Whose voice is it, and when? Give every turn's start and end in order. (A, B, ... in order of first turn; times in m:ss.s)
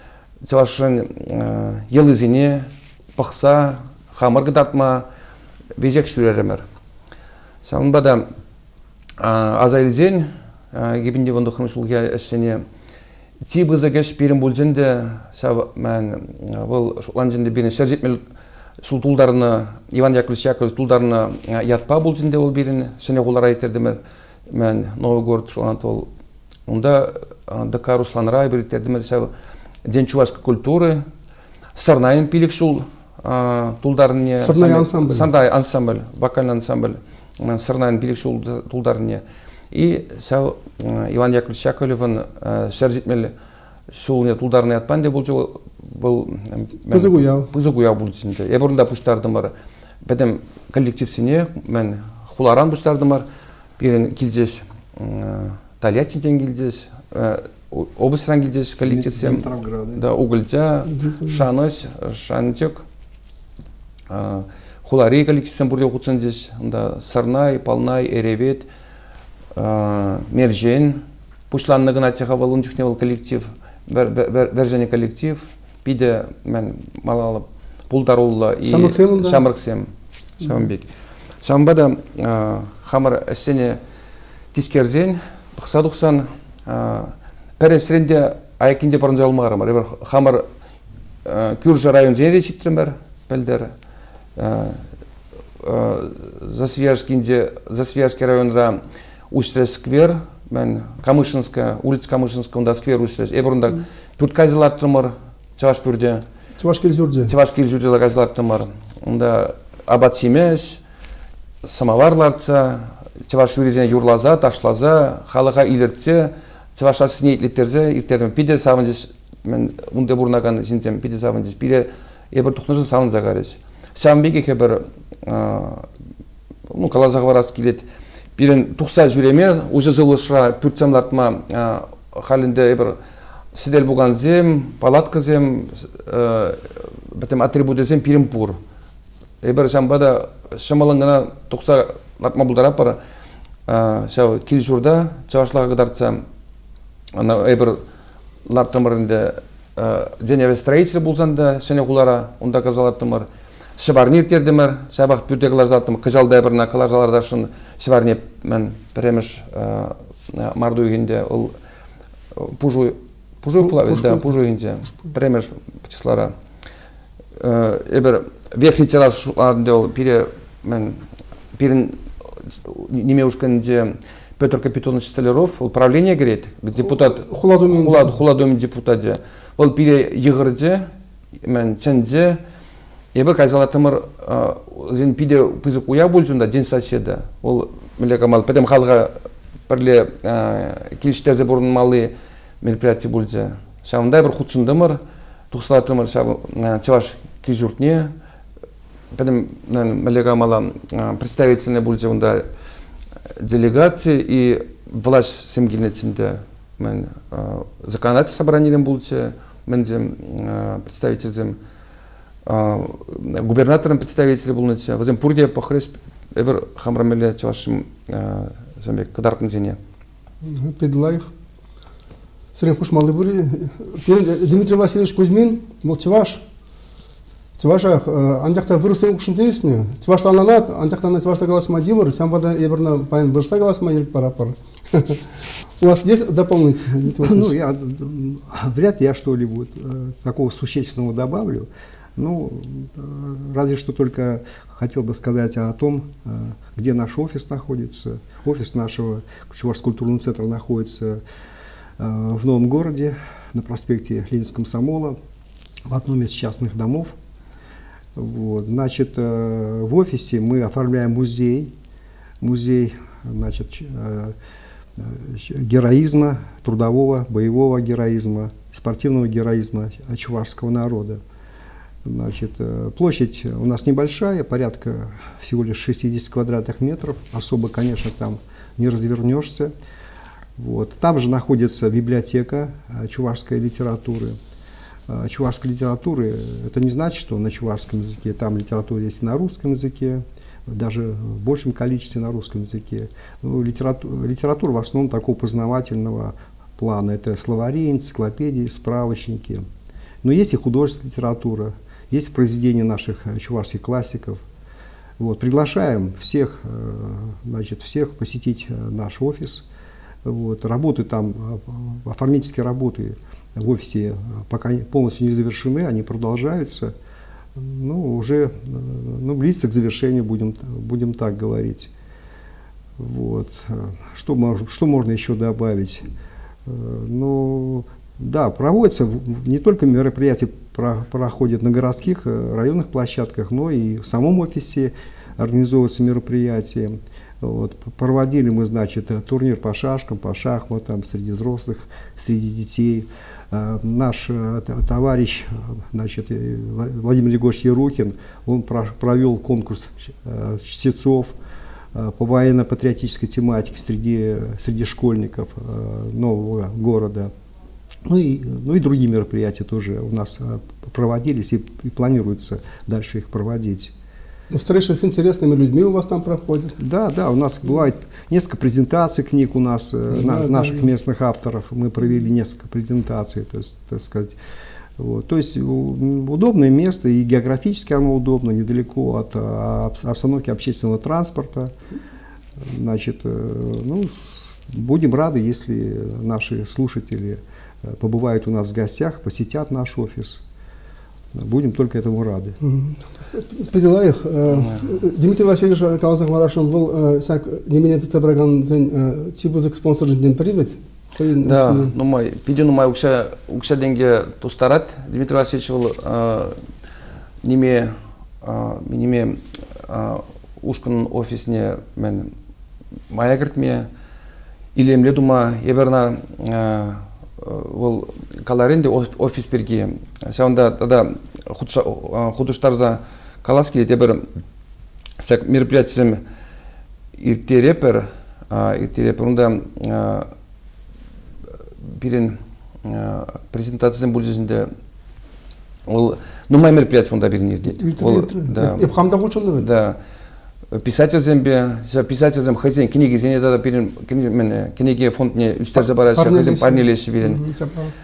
0:00.5-0:05.0 A
0:05.8-0:06.6 A
0:07.6-0:08.2 A
0:09.2-0:12.6 A
0:13.5-0:18.2 A
0:18.8-0:24.0 A
0:24.5-0:26.1 A
0:26.7-0:29.3 A
0:29.9-0:31.0 A
0:31.8-0:43.3 A
0:34.4-0:35.3 B
0:43.9-0:49.5 A
0:46.9-0:47.5 B
0:50.0-0:53.2 A
0:53.8-0:59.4 A
0:58.8-1:00.0 C
1:00.0-1:02.8 A
1:00.9-1:01.4 B
1:04.1-1:08.7 A
1:09.6-1:19.9 A
1:18.6-1:19.4 B
1:20.4-1:20.9 A
1:21.4-1:23.8 A
1:24.5-1:30.4 A
1:31.2-1:33.7 A
1:34.4-1:34.8 A
1:35.6-1:38.8 A
1:39.3-1:46.2 A
1:46.6-1:47.3 B
1:47.2-1:50.8 A
1:51.6-2:05.9 A
2:06.7-2:07.8 A
2:08.4-2:13.0 A
2:13.5-2:18.6 A
2:19.4-2:23.0 A
2:23.7-2:26.2 A
2:27.1-2:27.8 A
2:28.5-2:33.3 A
2:33.8-2:41.5 A
2:42.4-2:46.3 A
2:43.6-2:44.2 B
2:47.4-2:51.0 A
2:51.6-2:52.0 A
2:52.6-3:00.9 A
2:56.8-2:58.2 B
3:01.4-3:02.4 A
3:03.1-3:09.1 A
3:09.7-3:15.0 A
3:15.5-3:18.1 A
3:19.1-3:22.4 A
3:23.4-3:31.6 A
3:32.4-3:39.8 A
3:40.4-3:41.3 B
3:42.5-3:46.4 B
3:47.6-3:55.2 B
3:55.8-3:57.5 B
3:57.1-4:11.2 C
4:12.0-4:15.2 C
4:15.9-4:17.1 C
4:18.1-4:21.7 C
4:22.4-4:24.4 C
4:25.0-4:31.2 C
4:32.0-4:39.7 C
4:40.6-4:44.3 C
4:45.1-4:59.6 C
5:00.2-5:04.4 C
5:05.2-5:09.6 C
5:10.2-5:16.9 C
5:17.6-5:21.9 C
5:23.0-5:26.1 C
5:26.6-5:51.3 C
5:51.9-5:57.3 C
5:58.0-6:03.9 C
6:04.5-6:06.8 B
6:06.8-6:14.4 C
6:10.1-6:10.9 B
6:15.0-6:21.7 C
6:22.6-6:30.4 C
6:31.3-6:32.6 C
6:32.6-6:41.9 B
6:34.5-6:34.9 A
6:41.4-6:46.6 A
6:47.4-6:52.3 A
6:53.1-6:53.8 A
6:54.7-7:04.2 A
7:05.2-7:06.2 A
7:07.2-7:10.3 A
7:11.9-7:14.7 A
7:15.9-7:18.9 A
7:17.8-7:19.6 B
7:19.6-7:20.0 A
7:20.7-7:27.4 A
7:25.8-7:27.9 B